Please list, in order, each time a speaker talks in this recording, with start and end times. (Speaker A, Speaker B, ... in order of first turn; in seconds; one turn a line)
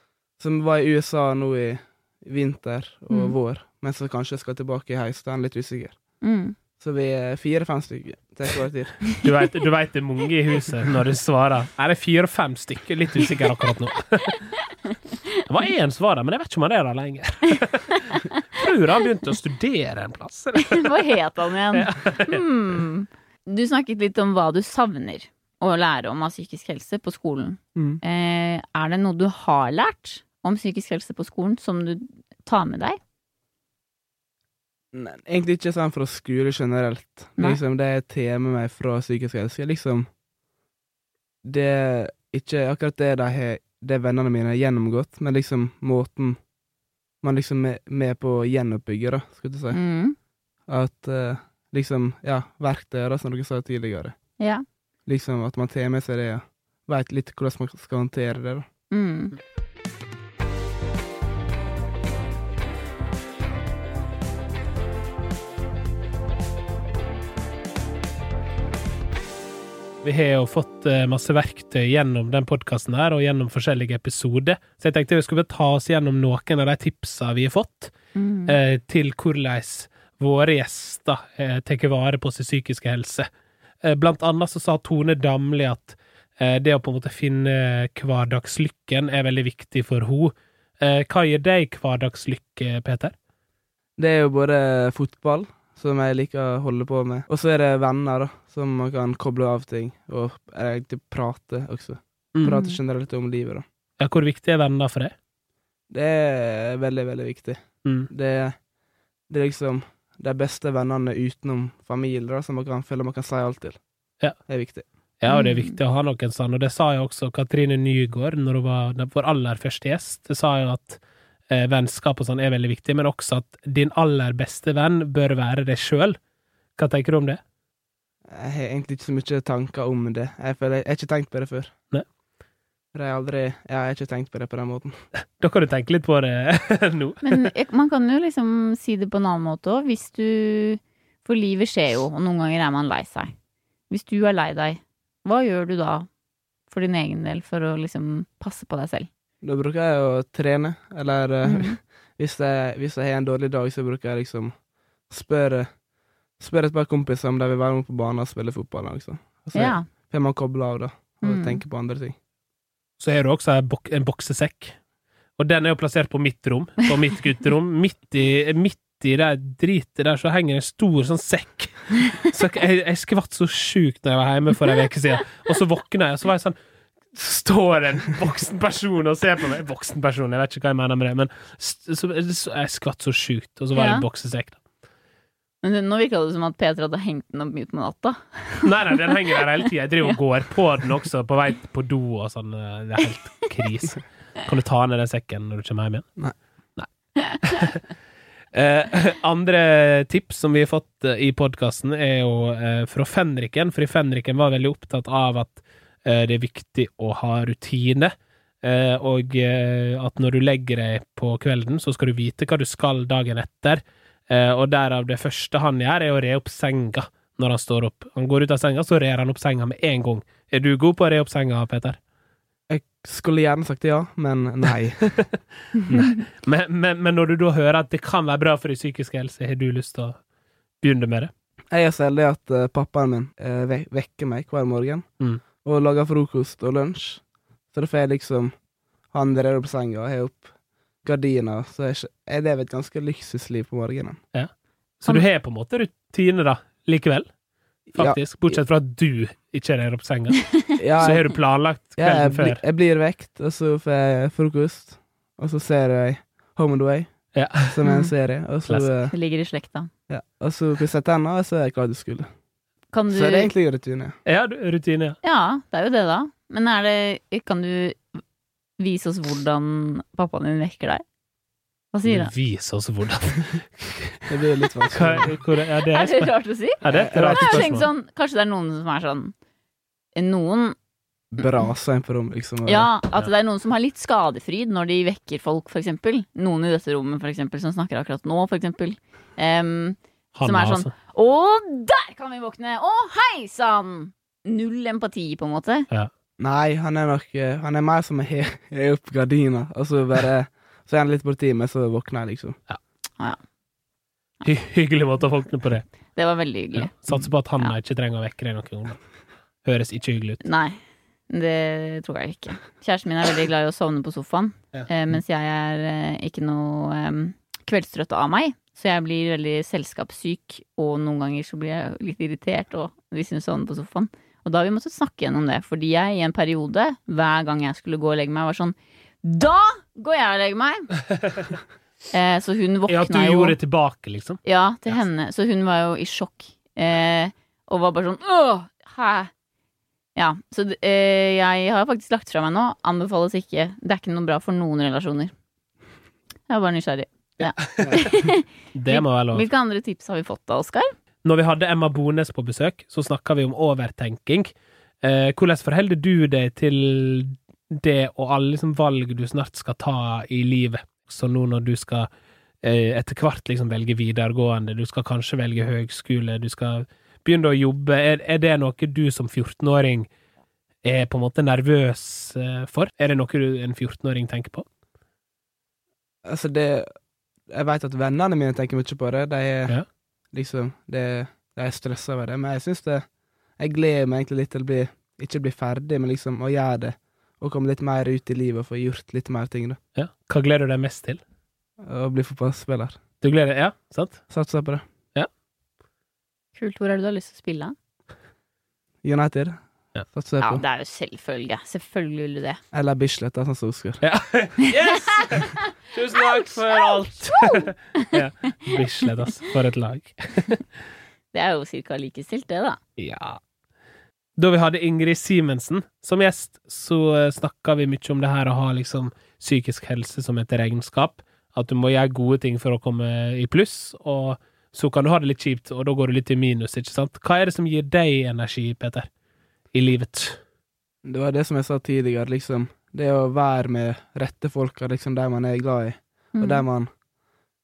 Speaker A: 0.4-6.0
Speaker B: 3.1-3.3
Speaker B: 6.2-6.6
Speaker A: 6.8-9.0
Speaker C: 9.2-14.6
Speaker C: 15.4-21.1
Speaker B: 20.7-33.0
Speaker C: 21.7-22.4
Speaker A: 27.8-28.0
Speaker A: 34.9-40.0
Speaker A: 41.4-46.4
Speaker A: 47.2-49.8
Speaker B: 49.7-50.1
Speaker A: 50.7-54.1
Speaker B: 54.4-54.6
Speaker A: 55.0-58.7
Speaker B: 58.9-59.4
Speaker C: 70.0-77.9
Speaker B: 78.1-78.5
Speaker C: 78.5-83.3
Speaker C: 83.8-93.1
Speaker A: 94.0-103.6
Speaker B: 102.4-102.8
Speaker C: 104.0-105.1
Speaker A: 105.9-108.5
Speaker A: 109.3-113.8
Speaker A: 114.5-114.8
Speaker C: 115.2-126.2
Speaker B: 115.3-115.8
Speaker C: 126.8-127.4
Speaker A: 128.3-131.7
Speaker A: 132.9-134.9
Speaker C: 135.4-137.4
Speaker B: 137.2-143.3
Speaker B: 143.9-146.1
Speaker B: 146.7-149.1
Speaker A: 149.4-154.5
Speaker B: 151.4-151.8
Speaker A: 155.1-155.7
Speaker A: 156.4-162.2
Speaker B: 159.5-159.9
Speaker B: 161.2-161.6
Speaker C: 163.0-164.8
Speaker C: 165.4-176.6
Speaker C: 177.1-184.6
Speaker B: 183.7-184.1
Speaker B: 185.6-190.2
Speaker C: 188.6-196.2
Speaker C: 197.4-197.8
Speaker C: 198.5-222.0
Speaker A: 222.7-225.2
Speaker C: 225.8-230.2
Speaker C: 230.8-231.3
Speaker A: 231.7-235.0
Speaker A: 235.6-237.2
Speaker A: 237.7-238.5
Speaker A: 239.1-240.5
Speaker A: 241.0-244.2
Speaker C: 244.3-247.3
Speaker A: 247.9-248.6
Speaker C: 247.9-252.6
Speaker A: 250.8-251.4
Speaker A: 252.0-259.1
Speaker C: 257.3-257.7
Speaker B: 257.8-258.1
Speaker B: 259.1-259.9
Speaker A: 260.1-262.3
Speaker B: 262.9-263.5
Speaker A: 263.1-264.1
Speaker C: 264.2-265.2
Speaker B: 265.2-268.0
Speaker B: 268.8-271.0
Speaker B: 271.9-272.3
Speaker C: 272.0-274.2
Speaker A: 274.3-275.3
Speaker C: 274.9-277.9
Speaker B: 275.8-276.8
Speaker A: 276.9-277.7
Speaker B: 277.3-279.3
Speaker B: 280.1-280.7
Speaker A: 281.3-282.9
Speaker B: 281.4-281.7
Speaker B: 282.6-295.9
Speaker C: 290.3-290.9
Speaker A: 296.4-302.6
Speaker C: 304.4-305.9
Speaker B: 306.1-307.7
Speaker C: 306.7-309.0
Speaker C: 309.6-310.4
Speaker B: 310.4-310.8
Speaker B: 311.3-330.9
Speaker B: 332.1-333.6
Speaker C: 332.9-335.0
Speaker B: 334.4-339.3
Speaker B: 340.1-345.3
Speaker B: 346.5-350.9
Speaker A: 347.8-348.1
Speaker C: 348.7-349.5
Speaker C: 351.2-362.1
Speaker C: 362.6-370.1
Speaker C: 370.8-374.6
Speaker A: 376.2-376.9
Speaker A: 377.5-379.8
Speaker A: 380.3-383.0
Speaker A: 383.6-389.8
Speaker C: 389.9-391.2
Speaker A: 391.8-393.0
Speaker C: 393.2-394.2
Speaker A: 394.3-394.8
Speaker B: 396.5-397.7
Speaker A: 399.0-400.6
Speaker B: 400.4-402.6
Speaker A: 402.7-404.0
Speaker C: 404.0-410.6
Speaker B: 406.3-408.2
Speaker B: 411.3-412.8
Speaker C: 413.0-413.4
Speaker C: 414.4-429.1
Speaker C: 429.7-430.4
Speaker A: 431.0-436.9
Speaker B: 436.3-436.6